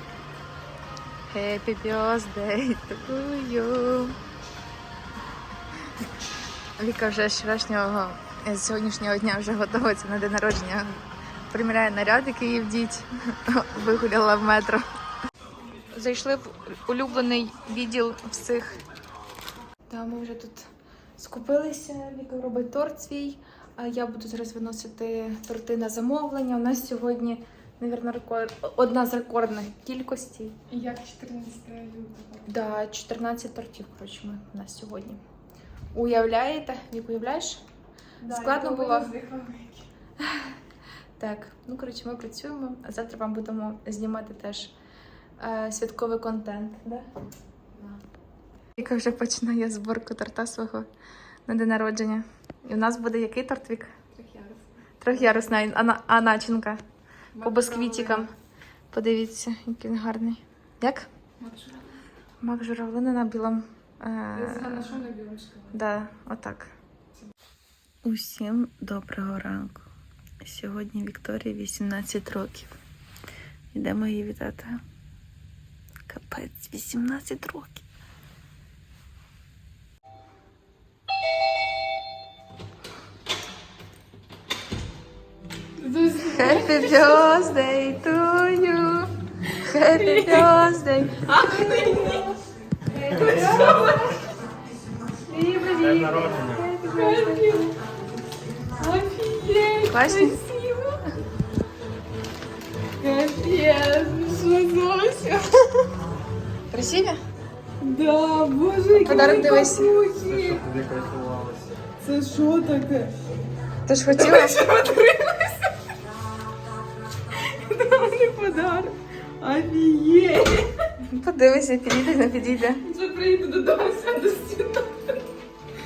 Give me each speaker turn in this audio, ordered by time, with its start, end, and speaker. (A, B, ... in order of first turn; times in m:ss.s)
0:01.3-0:04.2 A
0:06.8-0:11.0 A
0:11.5-0:14.8 A
0:15.9-0:18.8 A
0:19.9-0:20.7 A
0:21.2-0:30.6 A
0:30.7-0:32.5 B
0:32.5-0:35.2 A
0:35.9-0:37.6 A
0:38.2-0:39.9 B
0:38.3-0:39.1 A
0:40.2-0:40.5 A
0:41.2-0:44.7 A
0:45.4-0:47.1 A
0:48.8-0:50.9 A
0:51.5-0:53.9 A
0:54.1-0:54.6 B
0:55.0-0:56.8 A
0:57.4-0:58.3 B
0:57.4-0:58.3 A
0:58.9-1:01.1 A
1:01.4-1:02.0 B
1:02.4-1:05.1 A
1:04.3-1:05.7 B
1:05.7-1:06.7 A
1:08.0-1:09.9 A
1:10.4-1:12.8 A
1:13.7-1:14.8 A
1:16.1-1:17.8 A
1:25.8-1:27.3 B
1:26.2-1:31.2 A
1:29.8-1:30.5 B
1:31.2-1:32.4 B
1:33.0-1:34.2 B
1:33.2-1:34.0 A
1:35.3-1:37.6 A
1:35.7-1:36.7 C
1:36.9-1:37.8 B
1:38.8-1:41.0 B
1:39.9-1:40.4 A
1:43.0-1:45.9 B
1:46.7-1:47.2 A
1:47.8-1:50.6 B
1:48.9-1:49.9 A
1:50.1-1:51.8 C
1:52.0-1:53.1 B
1:53.9-1:54.7 A
1:54.1-1:55.7 B
1:57.4-2:00.7 B
2:01.0-2:02.8 A
2:02.8-2:05.2 B